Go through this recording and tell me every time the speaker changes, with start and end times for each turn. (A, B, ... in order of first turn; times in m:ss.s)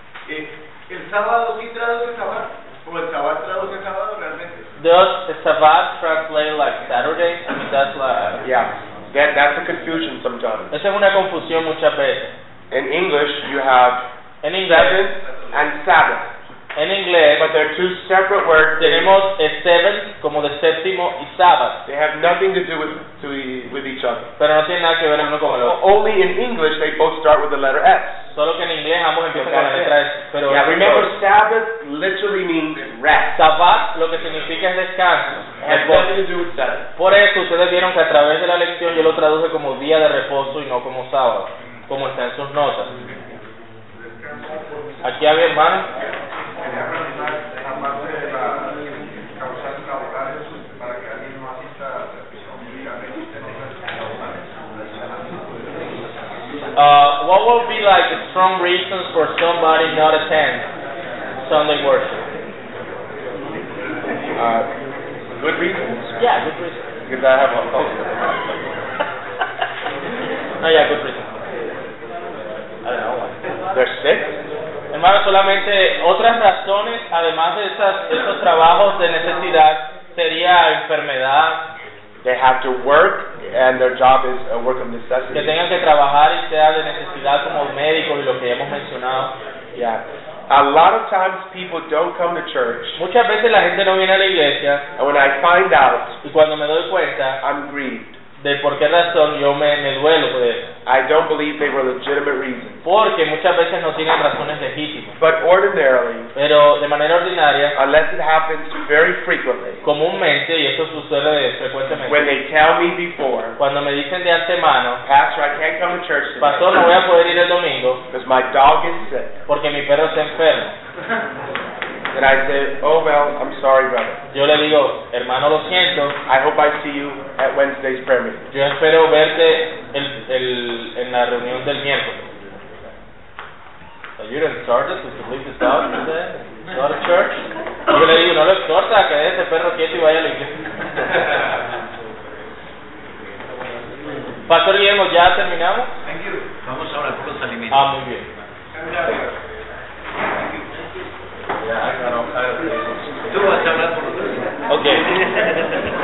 0:00.2-0:04.7 A
0:04.8-0:08.4 B
0:08.4-0:10.7 C
0:10.7-0:12.3 B
0:12.7-0:14.0 C
0:14.4-0:15.0 B
0:14.6-0:16.3 C
0:16.7-0:17.5 B
0:17.4-0:19.2 C
0:18.8-0:21.8 B
0:21.8-0:24.3 C
0:24.4-0:25.8 B
0:25.4-0:28.3 C
0:28.3-0:31.1 B
0:29.3-0:33.4 C
0:33.4-0:36.1 B
0:35.6-0:36.8 C
0:37.0-0:42.9 B
0:45.0-0:45.8 B
0:56.7-1:00.6 B
1:01.4-1:02.2 B
1:04.4-1:04.7 C
1:05.4-1:06.1 C
1:06.2-1:06.8 B
1:07.0-1:08.6 C
1:10.6-1:11.3 B
1:12.8-1:13.3 B
1:13.7-1:14.3 C
1:14.9-1:21.6 B
1:22.2-1:25.6 C
1:25.3-1:29.3 B
1:29.7-1:33.0 C
1:33.0-1:34.8 B
1:35.0-1:36.2 C
1:36.2-1:37.4 B
1:37.4-1:38.2 C
1:38.4-1:40.6 B
1:40.8-1:42.8 C
1:42.8-1:45.1 B
1:45.2-1:46.3 C
1:46.3-1:47.7 B
1:47.7-1:49.8 C
1:49.8-1:52.3 B
1:52.0-1:53.6 C
1:53.6-1:55.0 B
1:55.0-1:56.7 C
1:56.4-1:58.0 B
1:58.1-1:59.4 C
1:59.5-2:00.7 B
2:02.1-2:04.2 C
2:04.3-2:06.2 B
2:06.2-2:08.4 C
2:08.5-2:12.2 B
2:14.2-2:20.5 B
2:24.5-2:25.9 B
2:26.0-2:27.9 D
2:27.7-2:28.2 B
2:28.7-2:29.4 A
2:30.1-2:30.8 A
2:31.6-2:33.3 C
2:33.3-2:34.5 D
2:34.7-2:35.0 B
2:35.0-2:35.5 D